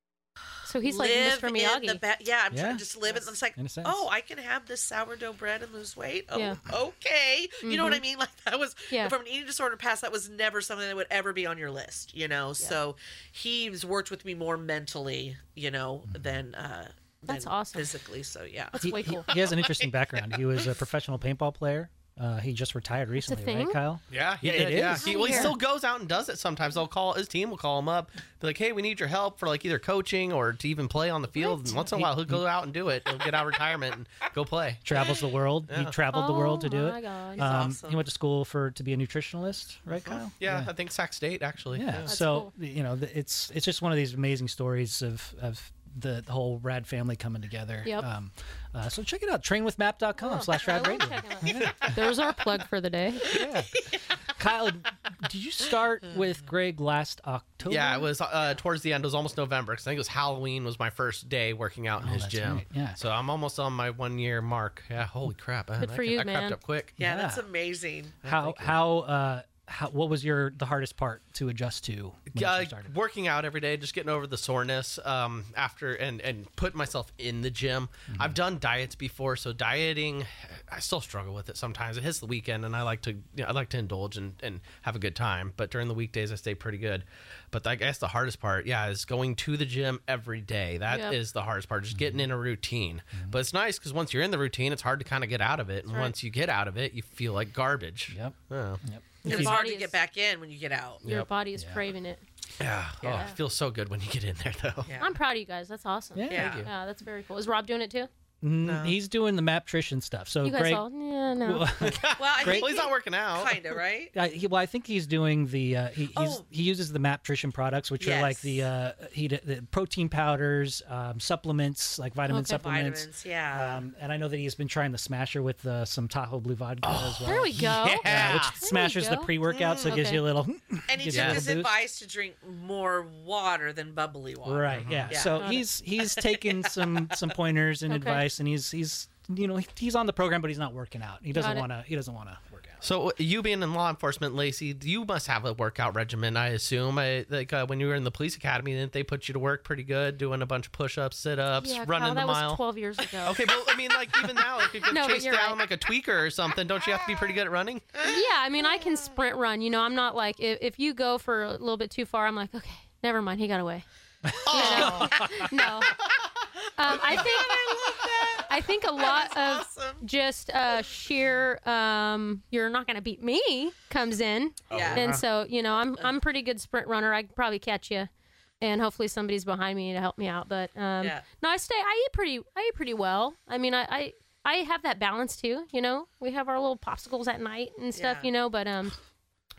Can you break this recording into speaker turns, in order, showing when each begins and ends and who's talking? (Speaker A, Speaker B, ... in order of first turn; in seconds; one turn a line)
Speaker A: 0.7-2.0
Speaker B: 0.8-20.4
Speaker C: 2.5-2.9
Speaker C: 3.6-4.0
Speaker A: 6.3-6.6
Speaker A: 7.6-8.0
Speaker A: 17.3-17.9
Speaker A: 18.8-19.3
Speaker C: 18.8-25.6
Speaker A: 23.2-23.8
Speaker D: 24.1-35.0
Speaker A: 24.9-25.6
Speaker A: 31.4-31.8
Speaker C: 31.7-32.4
Speaker C: 34.9-40.7
Speaker D: 35.7-36.0
Speaker A: 36.1-37.5
Speaker B: 37.4-38.0
Speaker D: 40.1-42.1
Speaker C: 41.7-52.0
Speaker A: 42.1-42.5
Speaker A: 50.2-53.4
Speaker B: 53.3-54.0
Speaker C: 53.3-58.1
Speaker D: 57.7-67.0
Speaker C: 62.0-63.0
Speaker A: 65.8-66.6
Speaker C: 67.0-67.5
Speaker B: 67.0-68.5
Speaker C: 68.2-72.9
Speaker D: 68.4-68.7
Speaker D: 72.3-98.8
Speaker C: 78.1-78.4
Speaker A: 90.9-91.2
Speaker C: 91.9-92.3
Speaker C: 98.1-99.6
Speaker A: 99.2-100.0
Speaker B: 99.2-101.0
Speaker A: 101.0-102.2
Speaker C: 101.5-101.8
Speaker D: 102.6-104.9
Speaker B: 103.0-103.3
Speaker B: 104.9-105.2
Speaker A: 105.0-108.1
Speaker C: 106.2-106.7
Speaker B: 106.3-106.7
Speaker D: 106.3-106.7
Speaker C: 108.4-110.8
Speaker B: 108.6-109.0
Speaker A: 110.4-111.7
Speaker C: 111.4-112.7
Speaker D: 111.8-113.6
Speaker B: 112.2-114.1
Speaker C: 114.1-131.7
Speaker B: 116.1-116.4
Speaker B: 118.0-118.7
Speaker A: 122.3-122.6
Speaker B: 122.5-123.8
Speaker D: 126.8-128.6
Speaker A: 127.2-129.3
Speaker A: 129.8-130.2
Speaker B: 130.9-135.5
Speaker D: 131.1-131.4
Speaker C: 134.4-142.8
Speaker D: 134.7-135.1
Speaker A: 135.4-135.7
Speaker B: 136.0-137.2
Speaker A: 137.9-138.2
Speaker A: 141.3-141.7
Speaker D: 142.8-152.6
Speaker A: 151.6-153.5
Speaker D: 153.2-158.0
Speaker B: 153.6-154.5
Speaker A: 154.9-155.6
Speaker B: 156.9-157.3
Speaker A: 158.0-163.8
Speaker C: 164.3-165.5
Speaker A: 164.4-166.0
Speaker D: 164.5-165.3
Speaker B: 164.5-165.3
Speaker A: 166.8-167.9
Speaker B: 166.9-170.1
Speaker A: 168.4-178.1
Speaker B: 174.7-175.2
Speaker D: 174.7-175.2
Speaker A: 178.6-189.0
Speaker B: 181.0-181.2
Speaker B: 187.9-188.3